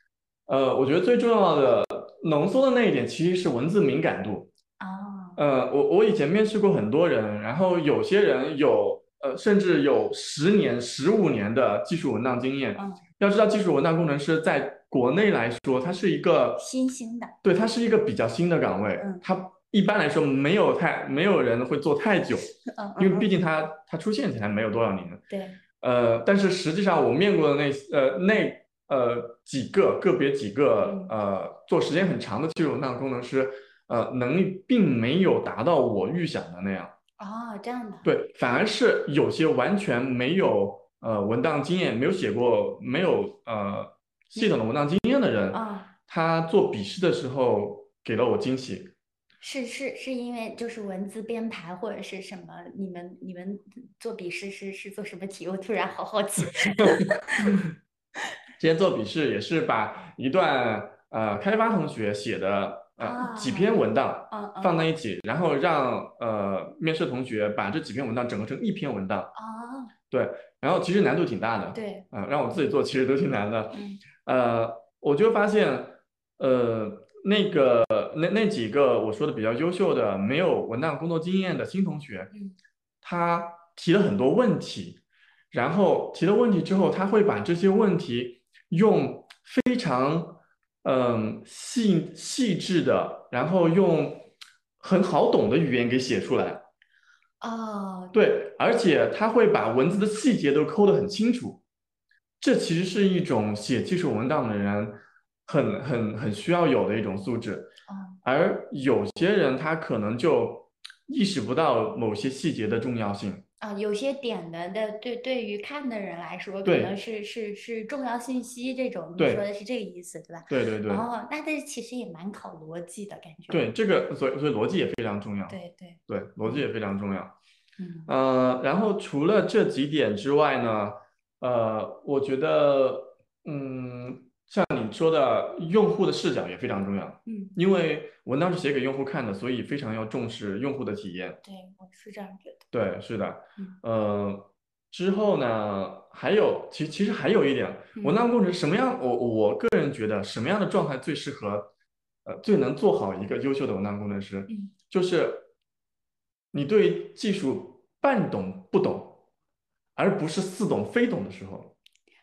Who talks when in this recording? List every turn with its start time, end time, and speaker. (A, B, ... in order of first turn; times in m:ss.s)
0:00.5-0:04.5 A
0:04.8-0:05.4 B
0:05.4-0:16.6 A
0:12.8-0:13.0 B
0:16.6-0:17.4 B
0:17.4-0:25.3 A
0:19.0-0:19.2 B
0:22.7-0:23.3 B
0:25.3-0:25.6 B
0:25.8-0:37.0 A
0:30.8-0:31.1 B
0:37.2-0:38.1 B
0:38.0-0:48.9 A
0:45.5-0:45.9 B
0:49.4-0:57.6 B
0:56.9-0:57.7 A
0:58.6-1:09.3 A
1:03.0-1:04.8 B
1:09.4-1:09.9 B
1:10.1-1:22.3 A
1:11.7-1:12.0 B
1:13.7-1:14.0 B
1:23.0-1:34.3 A
1:34.8-1:36.7 A
1:37.4-1:38.1 B
1:38.1-1:41.6 A
1:42.4-1:47.7 A
1:47.9-1:48.2 B
1:48.2-1:53.4 A
1:53.6-2:03.7 B
1:56.6-1:56.9 A
1:59.2-1:59.4 A
2:00.5-2:01.1 A
2:03.5-2:07.4 A
2:05.5-2:06.6 B
2:07.8-2:08.1 B
2:08.1-2:21.4 A
2:17.3-2:17.6 B
2:21.4-2:22.6 B
2:22.7-2:31.7 A
2:28.0-2:28.3 B
2:32.2-2:35.5 A
2:36.5-2:39.2 A
2:40.0-2:41.8 A